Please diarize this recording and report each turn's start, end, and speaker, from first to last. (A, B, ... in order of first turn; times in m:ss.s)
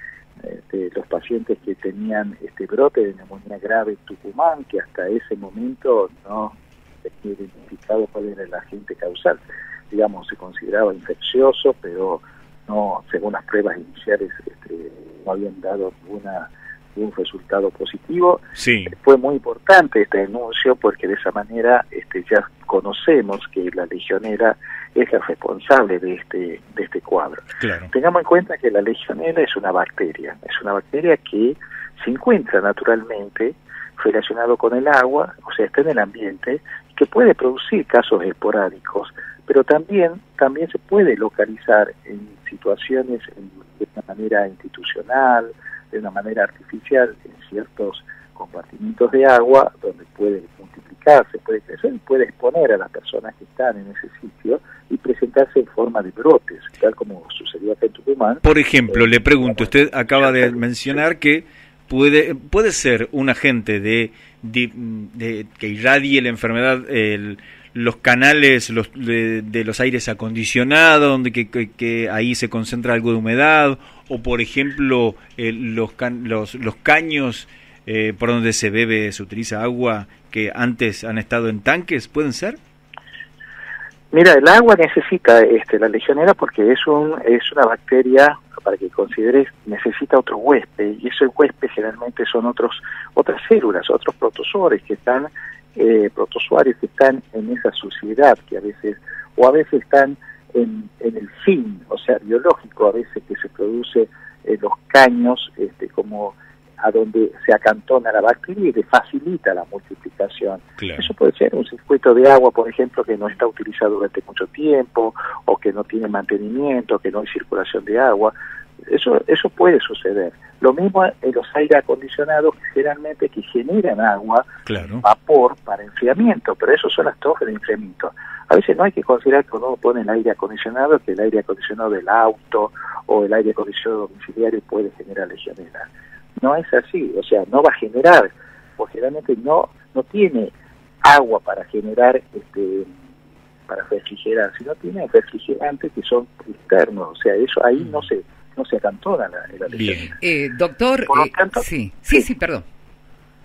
0:00.4-1:01.0 A
0:18.6-0:18.9 B
0:27.6-0:27.9 B
0:58.4-1:22.6 B
1:24.1-1:58.3 A
1:50.8-1:51.1 B
1:58.9-2:22.9 A
2:04.6-2:05.0 B
2:23.7-2:30.2 A
2:29.7-2:30.1 B
2:30.2-2:32.6 C
2:31.1-2:32.2 A